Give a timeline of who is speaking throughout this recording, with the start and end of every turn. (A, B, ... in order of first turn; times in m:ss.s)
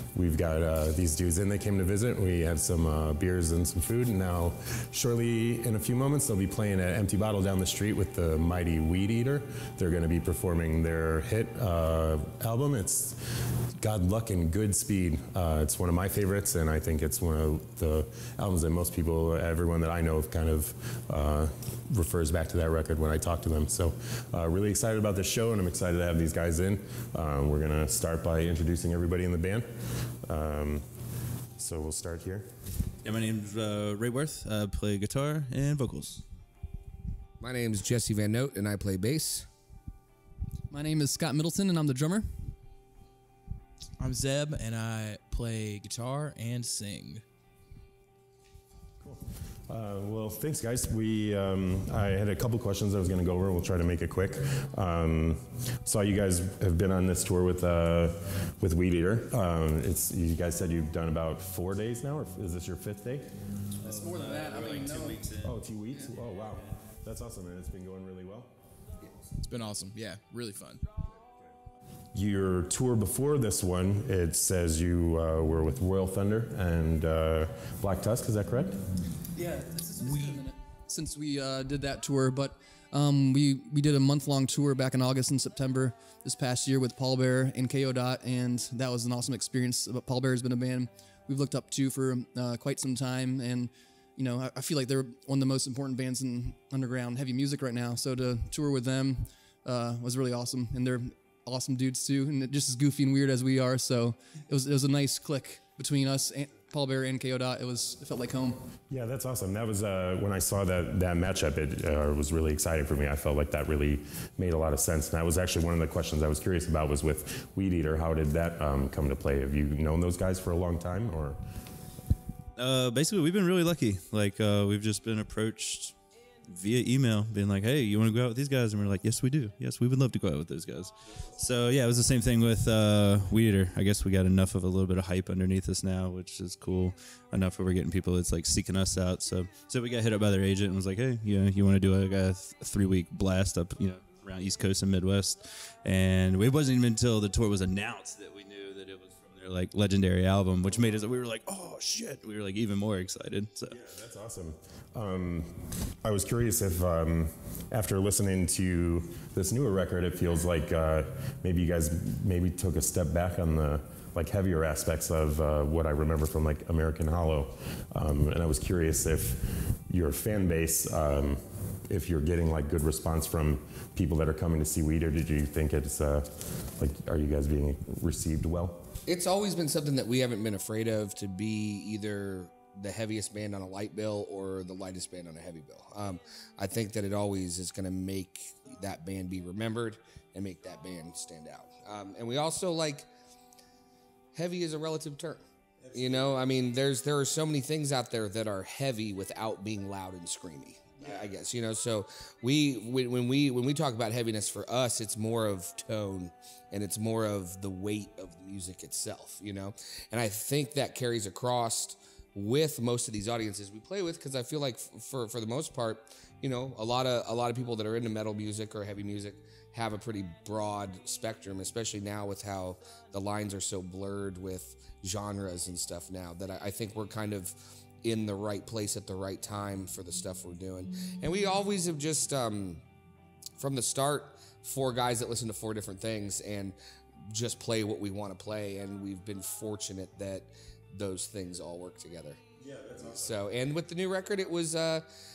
0:00.1-0:13.2 A
0:13.8-0:29.7 A
0:30.2-0:30.8 A
0:31.6-0:32.5 A
0:33.0-0:36.2 B
0:37.4-0:39.5 C
0:40.7-0:42.3 D
0:44.0-0:47.2 E
0:49.0-1:03.3 A
1:03.8-1:05.2 D
1:03.9-1:05.5 B
1:05.4-1:08.5 A
1:09.4-1:10.8 E
1:12.1-1:18.8 A
1:19.4-1:48.6 D
1:48.9-2:01.4 A
2:02.6-2:33.8 B
2:33.7-2:58.9 A
2:59.1-3:13.1 C
3:14.3-3:52.8 C
3:53.6-4:02.4 C
4:02.6-4:03.5 A
4:03.0-4:05.1 C